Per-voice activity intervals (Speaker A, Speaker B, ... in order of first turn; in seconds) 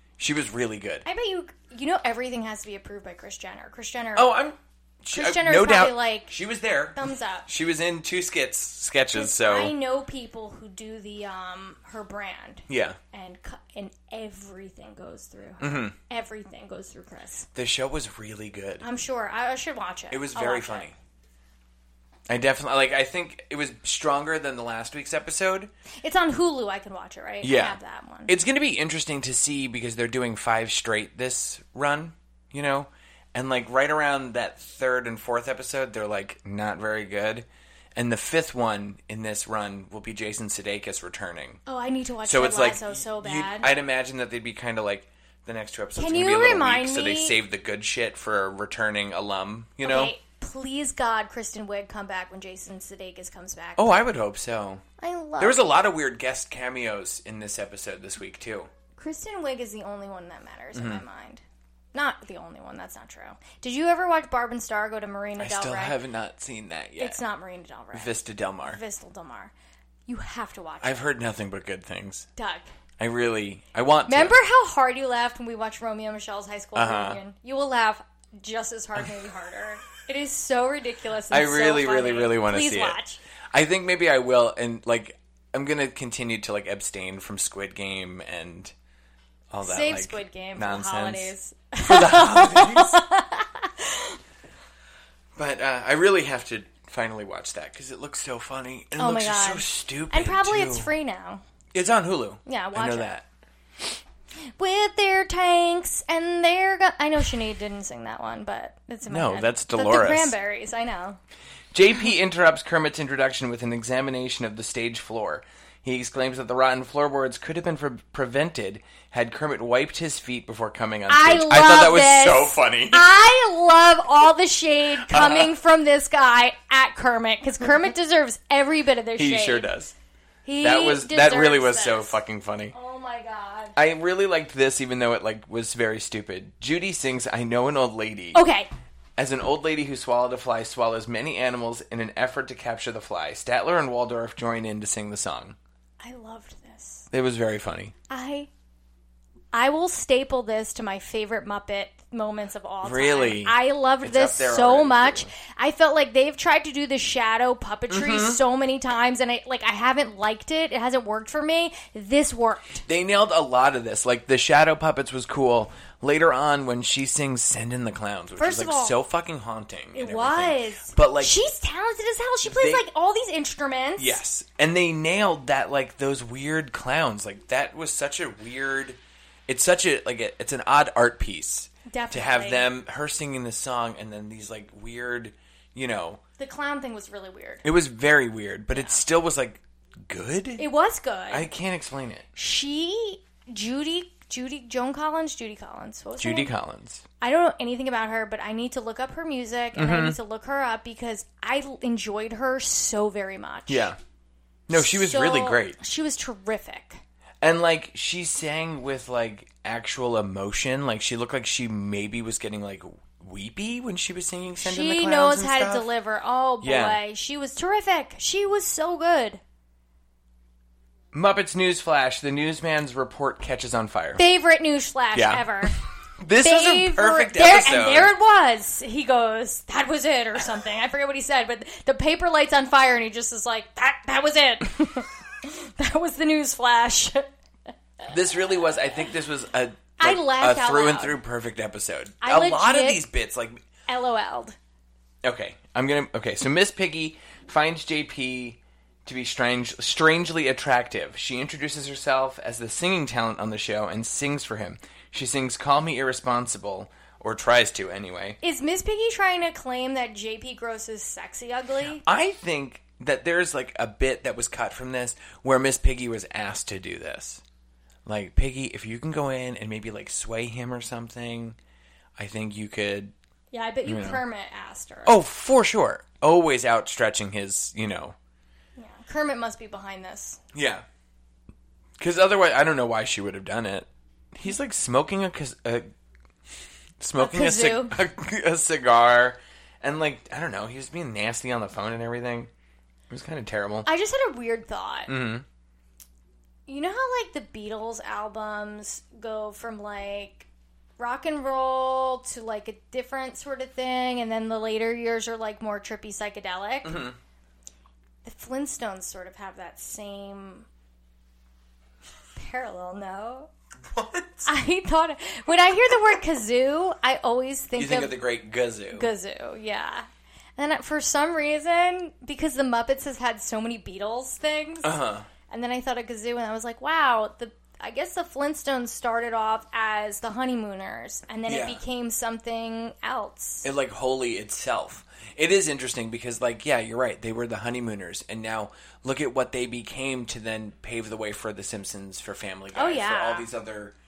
Speaker A: 0.2-1.0, 4.1-9.7, 12.7-13.0, 15.6-16.0, 17.5-18.9, 20.1-21.0, 22.3-25.7, 27.4-41.6, 42.2-50.1, 53.8-54.8, 55.4-58.7, 60.7-61.0, 65.4-67.2, 67.9-68.8, 70.8-72.3, 73.0-74.4, 76.8-77.2, 81.3-83.0, 83.5-88.7, 89.5-93.0, 95.4-100.9, 101.7-103.2, 109.1-110.3, 111.7-123.1, 125.1-125.5, 129.2-129.9, 130.6-132.7, 133.8-138.4, 139.2-145.6, 147.1-147.9, 152.8-155.3, 157.9-158.4, 162.9-171.4, 172.4-172.8, 174.0-186.2, 187.6-190.7, 191.3-192.3, 196.2-197.0, 199.8-200.2, 203.7-204.0, 204.7-205.8, 207.4-215.9, 216.6-217.0, 221.1-224.2, 225.1-228.1, 238.1-243.6, 245.2-258.4, 262.0-267.4, 268.1-271.6, 272.2-273.1, 273.9-274.2, 275.1-278.1, 280.5-280.8, 282.0-285.9, 287.0-292.5, 293.1-293.9, 295.1-295.4, 306.8-307.2, 313.9-314.5, 317.8-319.1, 324.8-325.3, 331.5-331.8, 333.6-343.9
Speaker B: 1.0-4.4, 5.1-6.3, 6.9-7.5, 9.1-17.5, 18.8-20.9, 26.0-28.3, 41.6-43.7, 46.0-47.4, 49.8-54.0, 55.0-55.7, 59.0-61.4, 61.9-66.0, 67.0-68.1, 68.6-69.5, 70.1-71.0, 72.4-72.7, 74.1-83.2, 89.6-94.2, 99.0-101.4, 102.5-103.1, 104.6-111.2, 121.1-129.7, 130.4-132.2, 132.7-133.8, 138.3-138.7, 146.0-147.1, 148.1-148.5, 149.5-162.8, 168.4-169.0, 169.9-174.2, 181.9-182.7, 186.4-187.7, 188.7-189.0, 190.6-191.5, 192.4-196.5, 197.2-203.9, 204.7-207.0, 214.6-219.4, 224.2-225.8, 226.4-237.3, 240.0-241.2, 242.2-243.1, 243.9-244.6, 258.4-262.0, 273.5-275.2, 278.8-280.4, 287.2-287.9, 293.9-295.1, 296.7-300.5, 301.0-307.0, 308.2-310.7, 312.4-313.5, 314.4-318.2, 318.9-324.9, 325.5-333.7, 342.7-343.5